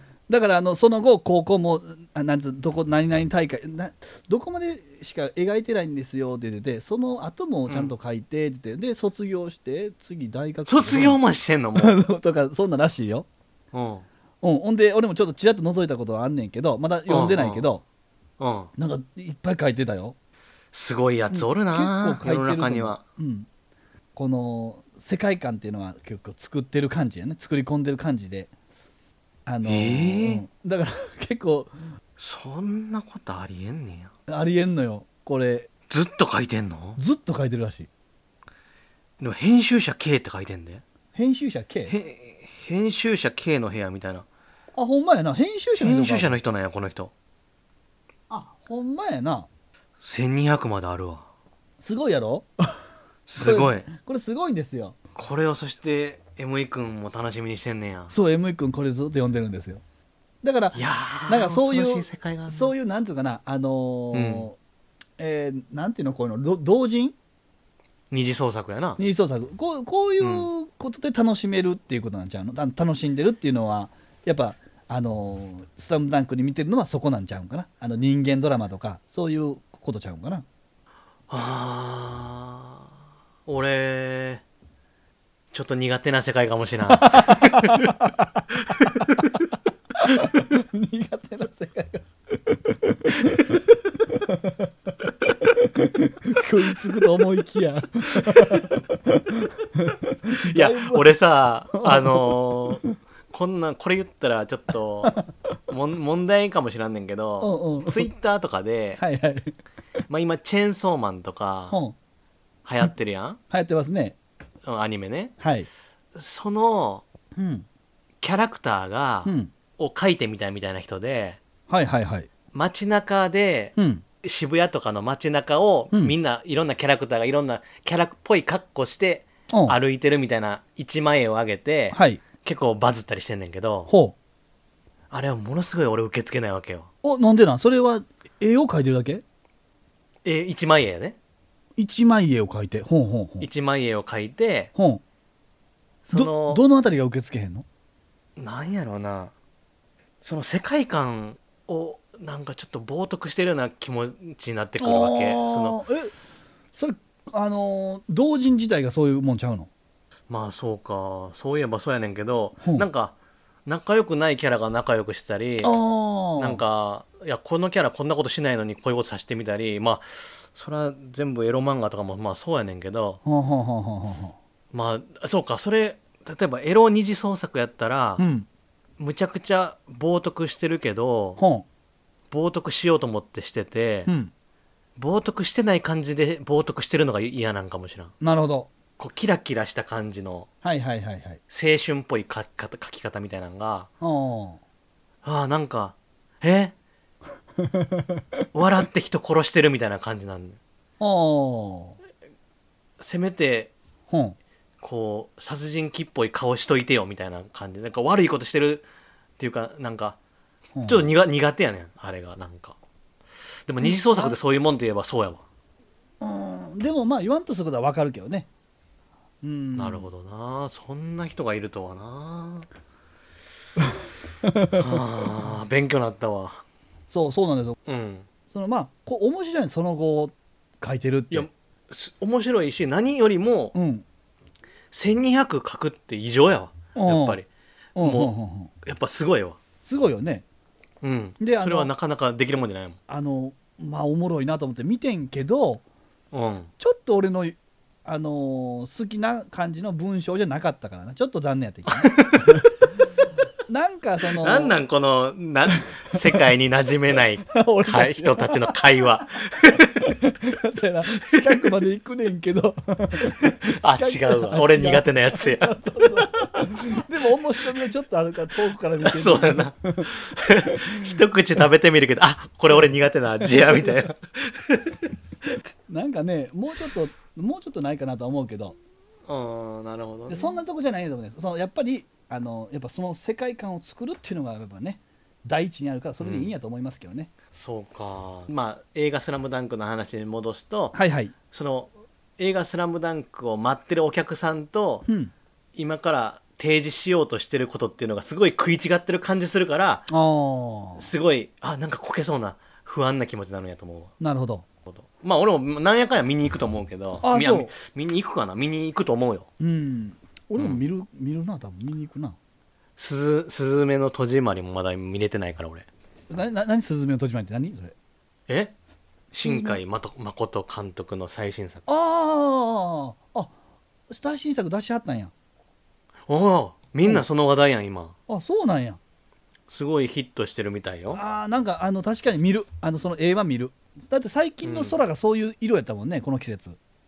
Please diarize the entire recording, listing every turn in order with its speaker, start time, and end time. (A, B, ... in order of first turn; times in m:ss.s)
0:00.3-0:11.2 A
0:07.7-0:07.9 B
0:10.7-0:12.0 B
0:11.8-0:13.3 A
0:13.7-0:14.0 B
0:14.4-0:17.8 A
0:17.1-0:17.7 B
0:18.4-0:18.7 B
0:18.8-0:20.2 A
0:20.7-0:23.0 B
0:21.3-0:23.5 A
0:24.2-0:28.5 A
0:29.5-0:31.7 A
0:29.7-0:30.4 B
0:32.2-0:34.1 B
0:34.3-0:35.7 A
0:35.9-0:37.0 B
0:37.0-0:37.9 A
0:39.2-0:40.8 B
0:41.1-0:41.9 A
0:41.9-0:44.3 B
0:44.8-0:46.4 A
0:45.8-0:47.1 B
0:48.3-0:49.5 A
0:50.0-0:51.2 B
0:51.8-0:52.8 A
0:53.3-0:53.9 B
0:53.4-0:55.0 A
0:55.2-0:58.1 B
0:58.1-0:59.8 A
1:00.4-1:04.6 A
1:00.7-1:02.7 B
1:04.1-1:04.5 B
1:05.2-1:07.2 A
1:08.1-1:09.0 B
1:09.0-1:20.4 A
1:10.2-1:10.5 B
1:21.3-1:22.9 B
1:23.5-1:24.4 B
1:25.5-1:29.5 B
1:26.9-1:28.4 A
1:30.0-1:34.7 A
1:30.1-1:30.4 B
1:35.5-1:41.1 A
1:40.3-1:49.0 B
1:41.7-1:42.9 A
1:47.4-1:48.1 A
1:49.0-1:49.5 A
1:50.1-1:51.8 B
1:52.6-1:53.4 B
1:53.5-1:54.2 A
1:54.7-1:55.3 B
1:55.4-1:55.7 A
1:56.2-1:57.0 B
1:57.4-1:57.7 A
1:58.2-2:01.4 B
1:59.2-1:59.5 A
2:01.7-2:02.3 A
2:02.5-2:13.9 B
2:03.8-2:04.0 A
2:09.5-2:09.8 A
2:11.9-2:12.2 A
2:13.9-2:14.2 A
2:15.1-2:16.9 B
2:17.0-2:19.2 A
2:20.2-2:21.2 B
2:21.8-2:23.5 A
2:23.4-2:24.7 B
2:24.8-2:25.0 A
2:26.1-2:26.6 B
2:26.1-2:27.6 A
2:28.4-2:29.3 B
2:30.2-2:35.8 B
2:34.8-2:36.1 A
2:36.7-2:39.7 A
2:40.3-2:43.1 B
2:43.7-2:45.8 B
2:45.6-2:46.6 A
2:46.4-2:53.2 B
2:53.2-2:54.4 A
2:54.7-2:58.3 B
2:58.2-2:58.5 A
2:59.0-3:01.4 B
3:01.4-3:01.7 A
3:02.3-3:04.1 B
3:04.1-3:04.3 A
3:05.0-3:08.1 B
3:08.2-3:08.7 A
3:09.0-3:10.5 B
3:10.6-3:11.4 A
3:11.5-3:13.9 B
3:14.0-3:14.6 A
3:15.2-3:16.8 B
3:17.6-3:18.2 A
3:18.5-3:20.6 B
3:21.0-3:22.0 A
3:23.0-3:23.7 B
3:24.1-3:24.4 A
3:24.8-3:28.9 B
3:29.4-3:30.2 B
3:30.8-3:31.1 A
3:30.9-3:32.8 B
3:33.7-3:35.4 B
3:33.8-3:34.4 A
3:36.2-3:38.5 A
3:39.4-3:40.1 A
3:39.8-3:42.7 B
3:44.4-3:44.8 A
3:44.7-3:46.6 B
3:47.1-3:47.8 A
3:47.9-3:48.2 B
3:48.5-3:51.5 A
3:51.3-3:53.8 B
3:53.8-3:54.0 A
3:54.9-3:57.5 B
3:57.0-3:57.4 A
3:58.0-3:58.7 A
3:58.0-3:59.6 B
3:59.8-4:00.4 A
4:01.0-4:03.0 B
4:01.4-4:01.9 A
4:03.1-4:05.8 A
4:06.3-4:06.7 B
4:06.8-4:12.7 A
4:11.9-4:12.8 B
4:13.7-4:14.8 A
4:14.4-4:20.2 B
4:17.5-4:18.8 A
4:19.8-4:30.1 A
4:21.2-4:21.7 B
4:23.4-4:27.0 B
4:29.0-4:35.0 B
4:30.6-4:31.2 A
4:33.4-4:34.0 A
4:35.9-4:38.8 A
4:39.3-4:40.6 B
4:40.3-4:47.3 A
4:46.2-4:46.5 B
4:47.5-4:51.0 B
4:51.0-4:51.3 A
4:51.5-4:55.1 B
4:55.1-4:55.3 A
4:55.8-5:00.1 B
5:00.1-5:01.1 A
5:01.0-5:04.1 B
5:04.2-5:04.6 A
5:04.9-5:09.5 B
5:07.2-5:07.7 A
5:09.6-5:12.4 A
5:13.0-5:15.9 B
5:16.3-5:17.9 A
5:18.5-5:18.7 B
5:19.3-5:21.8 B
5:19.4-5:19.8 A
5:21.9-5:23.5 A
5:24.1-5:25.3 A
5:26.3-5:28.2 B
5:28.3-5:29.0 A
5:29.7-5:31.2 B
5:31.1-5:36.8 A
5:34.6-5:35.0 B